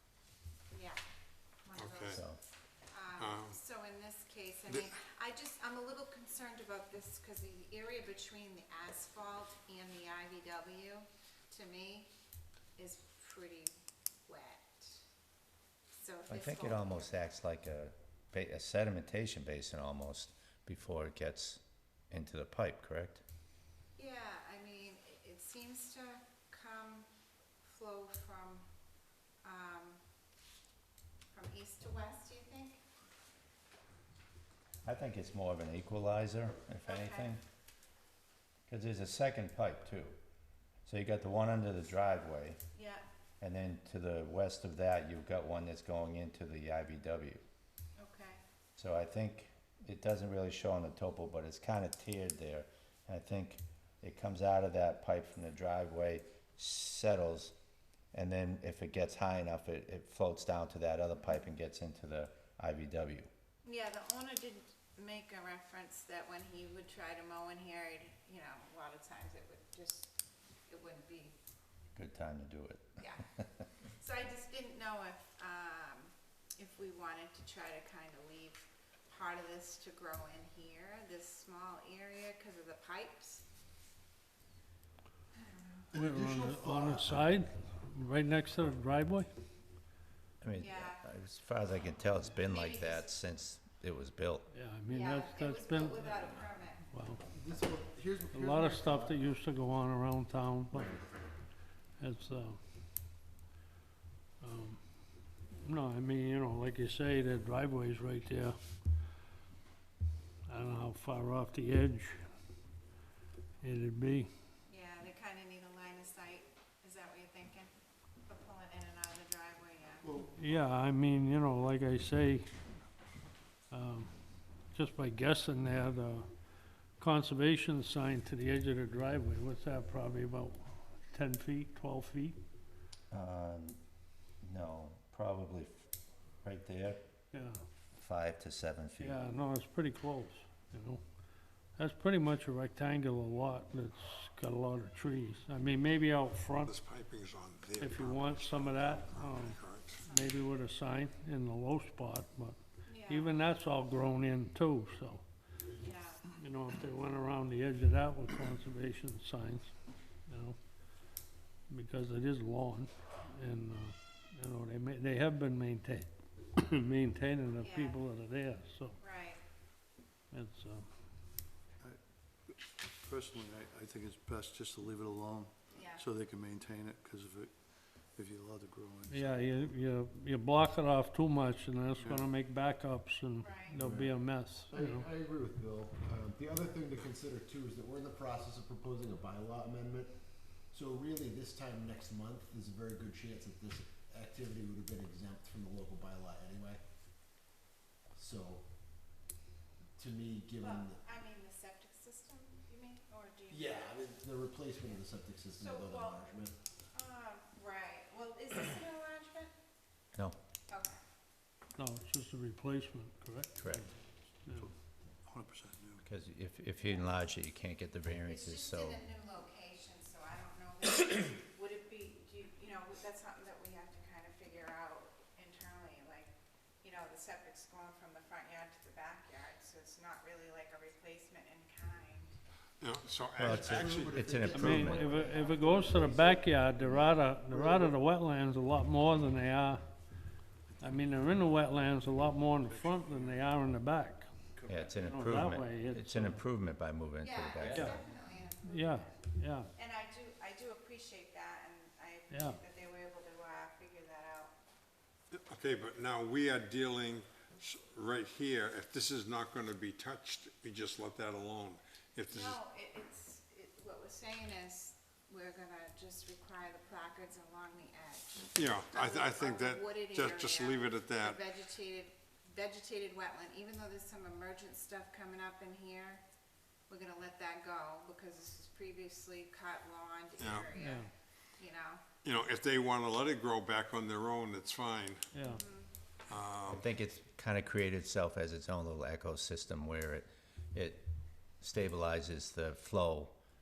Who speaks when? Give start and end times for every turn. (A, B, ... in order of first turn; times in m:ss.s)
0:00.7-0:01.0 A
0:01.6-0:02.2 A
0:01.8-0:02.2 B
0:02.1-0:02.4 C
0:02.9-0:12.1 A
0:03.2-0:03.6 B
0:04.7-0:04.9 B
0:12.8-0:13.7 A
0:14.3-0:15.0 A
0:16.0-0:17.1 A
0:16.3-0:23.2 C
0:24.0-0:27.1 A
0:27.6-0:28.6 A
0:29.4-0:30.0 A
0:31.3-0:32.8 A
0:34.8-0:37.4 C
0:36.9-0:37.3 A
0:38.7-0:40.2 C
0:40.9-0:42.6 C
0:42.7-0:43.0 A
0:43.4-0:47.4 C
0:48.0-0:48.4 A
0:48.8-0:57.6 C
0:58.1-1:03.3 C
1:03.6-1:10.1 A
1:10.7-1:11.3 A
1:12.0-1:13.0 C
1:13.0-1:13.3 A
1:13.8-1:23.4 A
1:25.4-1:25.9 A
1:25.9-1:29.3 D
1:26.0-1:27.1 E
1:30.4-1:34.5 C
1:30.6-1:31.0 A
1:32.4-1:33.1 A
1:34.5-1:37.3 D
1:34.9-1:36.8 A
1:37.2-1:39.2 E
1:38.3-1:40.9 D
1:40.7-1:41.2 E
1:42.0-1:42.6 D
1:44.4-1:44.8 D
1:45.6-1:48.6 D
1:50.5-1:52.2 D
1:53.6-1:54.3 D
1:54.7-1:57.7 A
1:58.3-2:00.1 A
2:00.0-2:00.3 E
2:00.3-2:02.6 D
2:03.7-2:04.1 D
2:04.7-2:06.3 D
2:07.0-2:12.4 D
2:13.1-2:13.8 C
2:14.4-2:15.8 C
2:16.4-2:17.0 C
2:17.3-2:17.6 D
2:18.0-2:19.2 C
2:19.0-2:21.0 D
2:21.8-2:26.8 D
2:26.6-2:30.0 B
2:27.8-2:35.2 D
2:32.8-2:33.4 A
2:35.8-2:36.3 A
2:36.3-2:39.7 D
2:40.2-2:40.6 D
2:41.7-2:49.0 D
2:47.6-2:48.0 A
2:49.0-2:49.4 A
2:50.3-2:50.9 D
2:51.8-2:59.6 F
2:55.7-2:56.0 A
2:59.1-3:05.1 D
3:01.9-3:02.3 F
3:03.4-3:03.8 A
3:03.8-3:10.1 E
3:10.7-3:16.8 E
3:18.1-3:18.7 E
3:20.0-3:21.0 E
3:20.6-3:23.8 A
3:23.5-3:26.5 E
3:25.6-3:26.2 A
3:26.9-3:29.5 A
3:30.7-3:31.0 A
3:31.7-3:33.9 D
3:33.6-3:33.9 C
3:34.4-3:36.0 F
3:36.0-3:39.0 C
3:36.8-3:37.1 A
3:38.3-3:52.3 A
3:52.8-3:54.2 B
3:53.4-3:55.1 C
3:53.5-3:56.6 E
3:54.5-3:59.9 D
3:56.8-3:57.2 A
3:57.5-3:57.9 E
4:00.8-4:06.4 D
4:02.7-4:03.2 F
4:04.6-4:05.0 F
4:04.7-4:08.0 C
4:07.2-4:09.2 A
4:07.6-4:08.0 F
4:07.6-4:08.0 D
4:08.6-4:09.7 D
4:09.7-4:14.5 A
4:12.3-4:12.6 D
4:15.3-4:22.6 B
4:22.3-4:36.2 A
4:28.6-4:31.4 B
4:36.9-4:42.0 A
4:40.4-4:40.7 B
4:40.8-4:41.1 D
4:42.2-4:45.3 B
4:45.3-4:45.6 D
4:45.4-4:45.9 A
4:46.3-4:46.8 B
4:46.7-4:51.1 C
4:51.6-4:53.4 C